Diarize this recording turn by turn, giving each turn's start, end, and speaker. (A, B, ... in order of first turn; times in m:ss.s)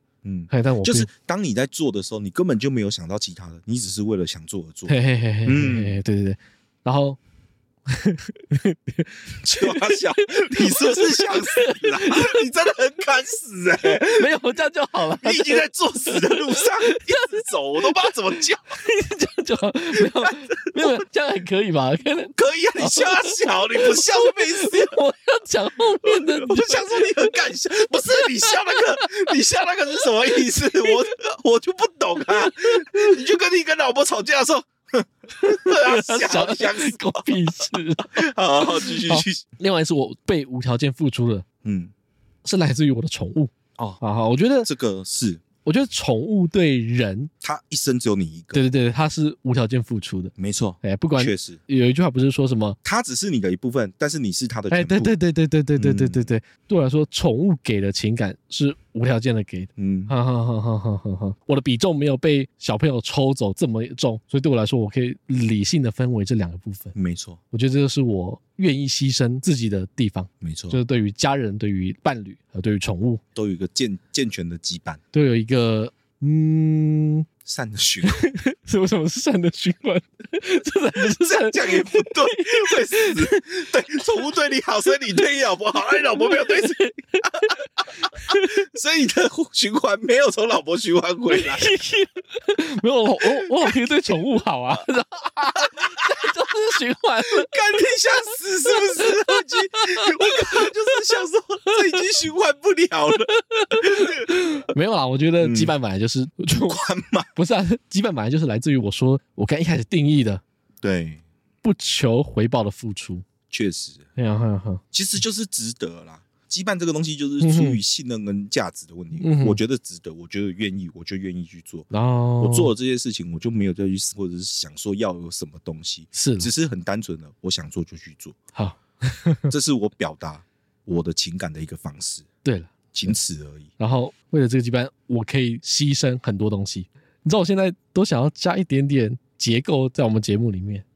0:00.2-0:05.0 A
0:00.5-0:01.1 B
0:04.9-0:07.2 B
0:05.5-0:06.0 A
0:07.9-0:12.4 B
0:09.4-0:14.3 A
0:13.8-0:18.1 B
0:15.2-0:18.8 A
0:18.7-0:27.3 B
0:20.0-0:21.0 A
0:22.3-0:25.0 A
0:26.0-0:39.4 A
0:28.1-0:28.9 B
0:30.2-0:30.9 B
0:32.4-0:33.1 B
0:35.4-0:41.4 B
0:41.6-0:41.9 A
0:42.4-0:44.7 B
0:44.6-0:45.4 A
0:45.6-0:47.3 B
0:47.4-0:48.6 A
0:48.5-0:52.8 B
0:50.4-0:51.6 A
0:52.8-0:55.1 A
0:54.7-1:06.9 B
0:55.8-0:56.3 A
0:59.8-1:00.1 A
1:06.9-1:07.4 A
1:07.5-1:13.2 B
1:10.4-1:10.8 A
1:13.4-1:15.0 A
1:15.1-1:17.3 B
1:17.4-1:18.3 A
1:18.0-1:23.4 B
1:21.0-1:31.7 A
1:26.1-1:28.5 B
1:31.3-1:37.6 B
1:33.2-1:33.8 A
1:35.7-1:36.3 A
1:37.3-1:44.4 A
1:38.8-1:41.0 B
1:41.7-1:42.0 B
1:43.3-1:46.8 B
1:45.4-1:45.7 A
1:46.5-1:47.3 A
1:47.4-1:50.4 B
1:50.8-1:51.2 A
1:51.6-1:53.2 B
1:53.5-1:54.0 A
1:54.2-1:54.8 B
1:54.9-2:08.4 A
1:57.4-1:57.8 B
1:59.2-1:59.6 B
2:01.9-2:02.7 B
2:06.2-2:06.5 B
2:08.6-2:09.5 B
2:09.5-2:12.3 A
2:12.4-2:12.7 B
2:12.9-2:13.7 A
2:13.8-2:20.8 B